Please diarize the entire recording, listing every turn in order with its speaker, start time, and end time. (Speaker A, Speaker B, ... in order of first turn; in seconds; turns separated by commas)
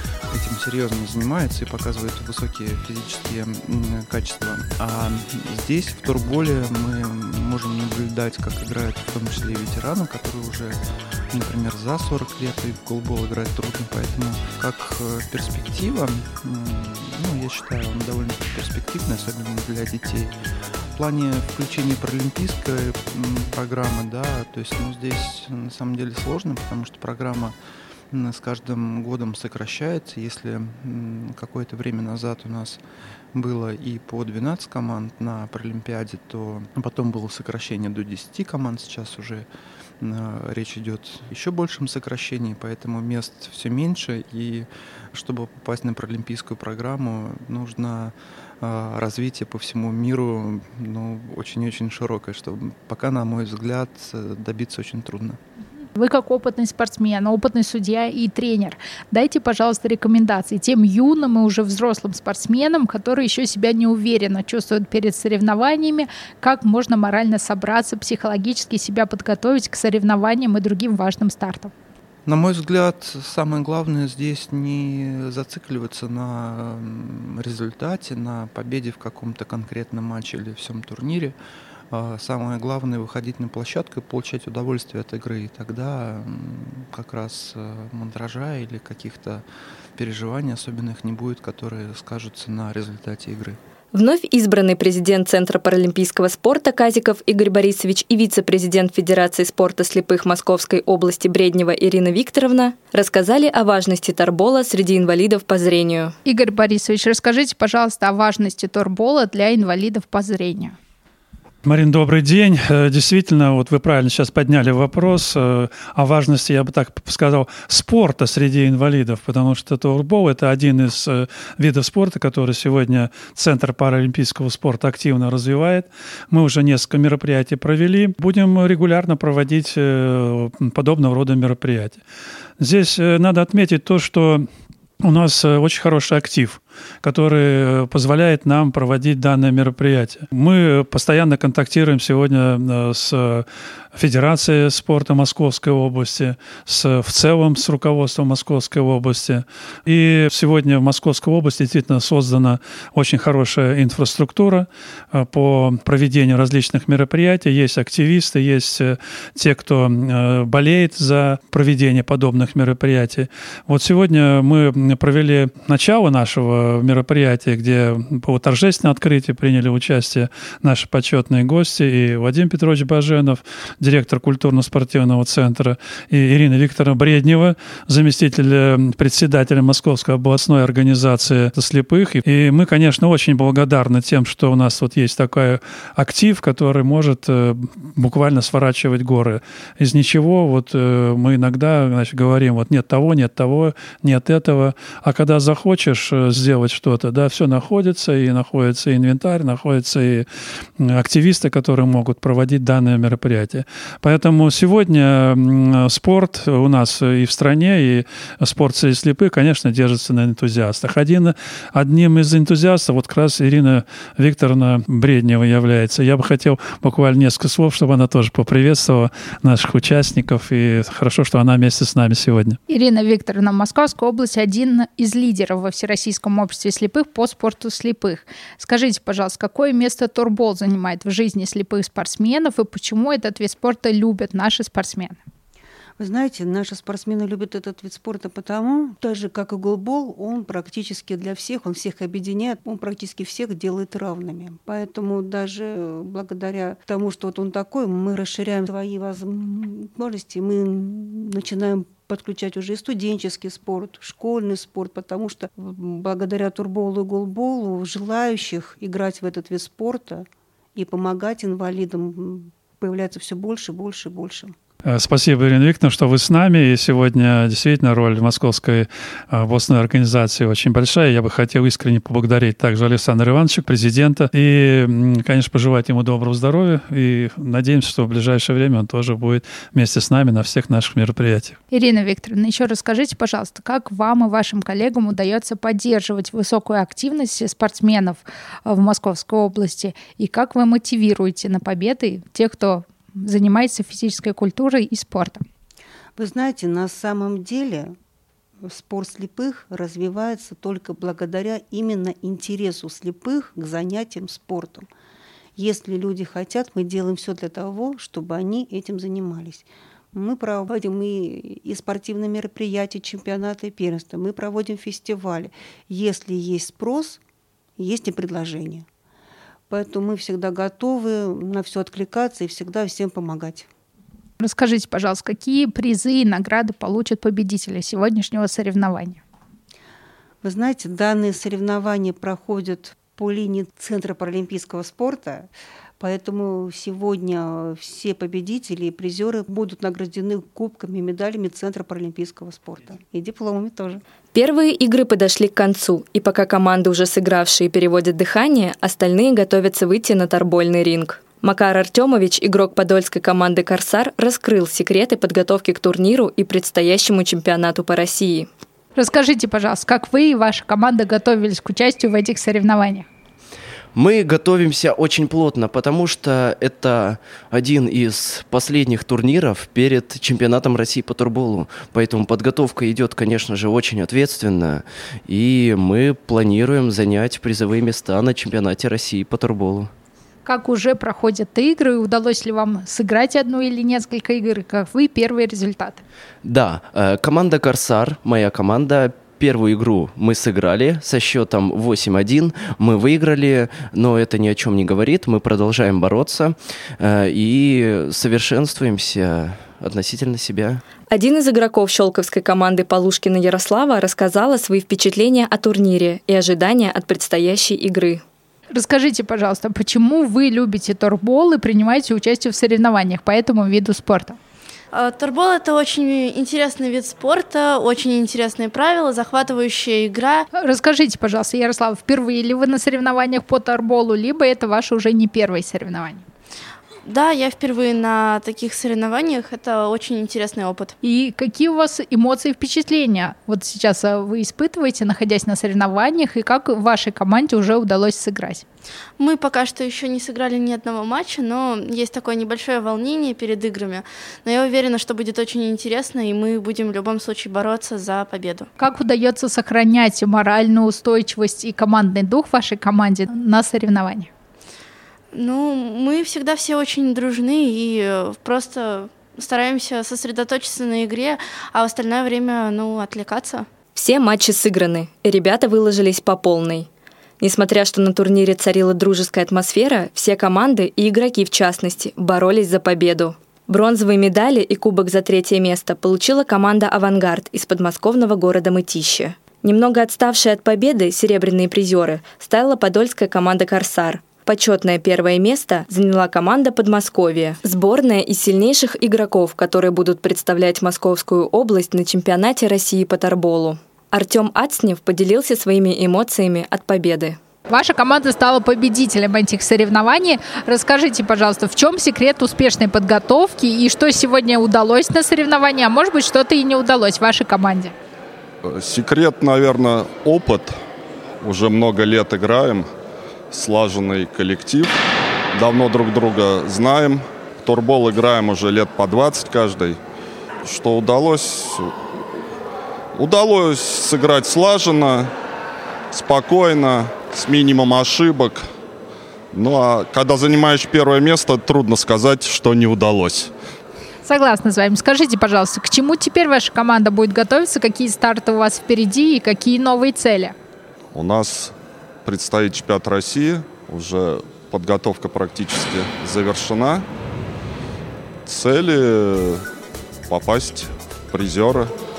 Speaker A: 0.3-10.8, Speaker A: 11.3-20.4, Speaker A: 20.9-27.6, Speaker A: 28.1-32.8, Speaker A: 33.3-39.5, Speaker A: 40.0-55.4, Speaker B: 56.0-71.7, Speaker A: 72.3-81.4, Speaker A: 81.9-89.5, Speaker A: 90.0-93.6, Speaker C: 93.9-106.1, Speaker B: 106.2-110.8, Speaker D: 111.6-132.0, Speaker D: 132.6-134.5, Speaker D: 135.0-200.3, Speaker D: 200.8-222.6, Speaker B: 222.7-235.2, Speaker E: 236.0-264.5, Speaker D: 264.9-281.6, Speaker B: 281.7-295.4, Speaker E: 296.2-297.9, Speaker E: 298.6-304.9, Speaker E: 305.6-317.2, Speaker E: 317.8-318.9, Speaker E: 319.7-323.7, Speaker B: 324.4-329.2, Speaker E: 330.4-344.0, Speaker C: 344.3-358.5, Speaker B: 358.9-363.1, Speaker F: 363.9-379.9, Speaker B: 380.4-386.0, Speaker F: 386.4-400.8, Speaker C: 401.1-408.2, Speaker B: 408.7-414.4, Speaker G: 414.9-420.4, Speaker B: 420.5-426.2, Speaker G: 427.1-430.9, Speaker B: 431.0-438.6, Speaker G: 439.2-448.7, Speaker B: 448.8-454.3, Speaker G: 455.3-463.7, Speaker C: 463.9-466.9, Speaker C: 467.4-497.4, Speaker B: 497.7-507.9, Speaker H: 508.6-510.8, Speaker H: 511.4-512.9, Speaker H: 513.5-515.0, Speaker H: 515.5-520.0, Speaker H: 520.6-521.9, Speaker H: 523.2-525.3, Speaker H: 526.1-528.6, Speaker H: 529.5-533.5, Speaker B: 534.2-540.6, Speaker H: 541.1-541.7, Speaker H: 542.2-547.1, Speaker H: 548.5-549.6, Speaker H: 550.3-551.9